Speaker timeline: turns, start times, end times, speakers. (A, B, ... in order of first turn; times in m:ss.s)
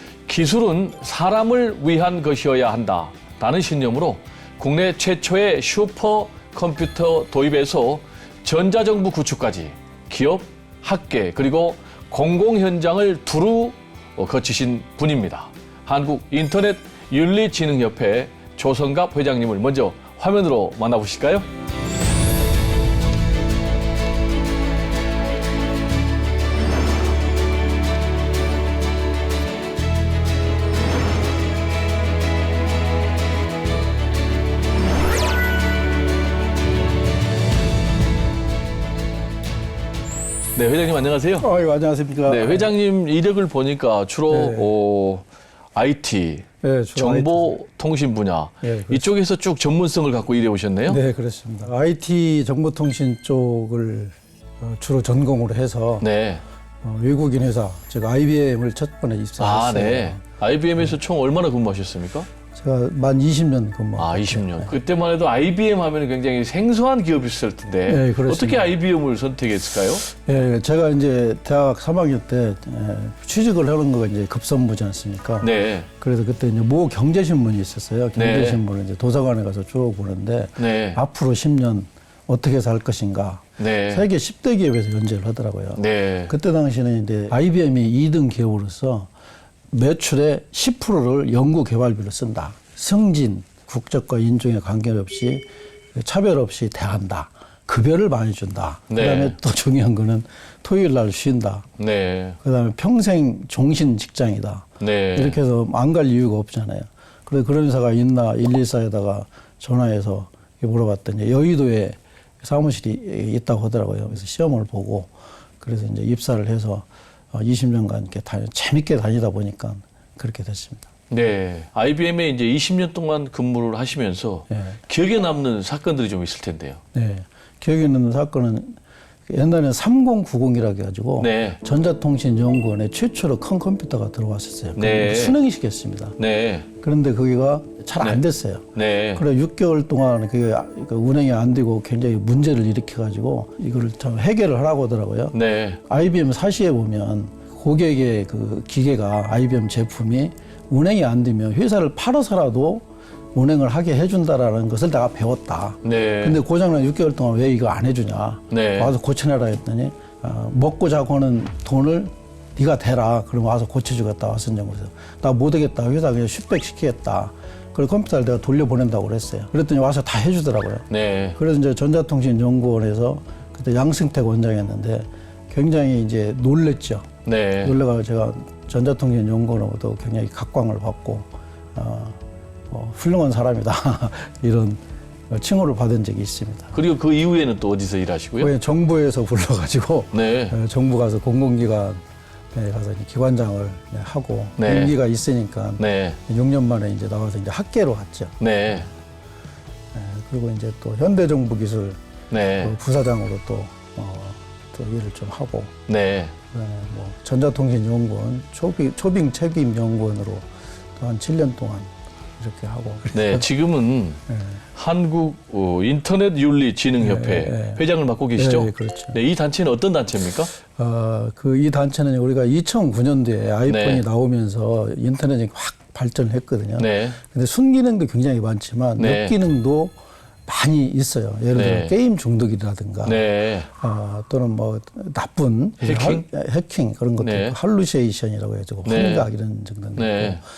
0:00.3-0:21.5 A
0:40.6-0:41.5 A
0:41.4-0:42.7 B
0:42.3-0:46.4 A
0:44.3-0:44.7 B
0:46.6-0:47.5 B
0:47.0-0:51.0 A
0:48.6-0:49.1 B
0:50.9-0:56.1 B
0:56.0-0:56.4 A
0:56.8-1:00.2 B
0:59.4-1:02.3 A
1:02.6-1:04.8 B
1:04.0-1:10.1 A
1:07.9-1:08.7 B
1:10.1-1:29.1 B
1:15.4-1:15.9 A
1:18.2-1:18.6 A
1:20.6-1:21.0 A
1:23.6-1:24.1 A
1:25.8-1:26.3 A
1:29.7-1:41.7 B
1:38.9-1:39.4 A
1:41.8-1:42.4 A
1:42.4-2:00.9 B
1:44.8-1:45.4 A
2:01.1-2:06.8 A
2:06.9-2:08.8 B
2:09.3-2:16.2 B
2:11.2-2:11.6 A
2:14.8-2:15.4 A
2:16.2-2:16.7 A
2:16.8-2:25.4 B
2:18.7-2:19.2 A
2:25.3-2:25.8 A
2:25.9-2:57.1 B
2:35.8-2:36.4 A
2:38.5-2:38.9 A
2:50.9-2:51.4 A
2:57.2-2:57.8 A
2:57.6-3:02.2 B
3:02.7-3:06.8 B
3:06.7-3:08.5 A
3:08.4-3:12.0 B
3:10.1-3:10.6 A
3:12.5-3:18.4 B
3:14.6-3:15.0 A
3:15.8-3:16.2 A
3:18.4-3:18.9 A
3:19.9-3:22.0 B
3:22.3-3:22.7 A
3:22.6-3:25.7 B
3:25.9-3:26.4 A
3:26.5-3:33.5 B
3:33.1-3:34.2 A
3:34.3-3:34.6 B
3:34.7-3:40.5 A
3:37.0-3:37.8 B
3:38.4-3:39.2 B
3:40.6-3:50.0 B
3:43.7-3:44.0 A
3:46.8-3:47.2 A
3:49.0-3:49.4 A
3:50.5-3:53.2 B
3:51.5-3:51.9 A
3:53.0-3:53.7 A
3:53.8-4:00.4 B
3:55.8-3:56.2 A
3:57.2-3:57.6 A
3:58.8-3:59.3 A
4:00.0-4:00.4 A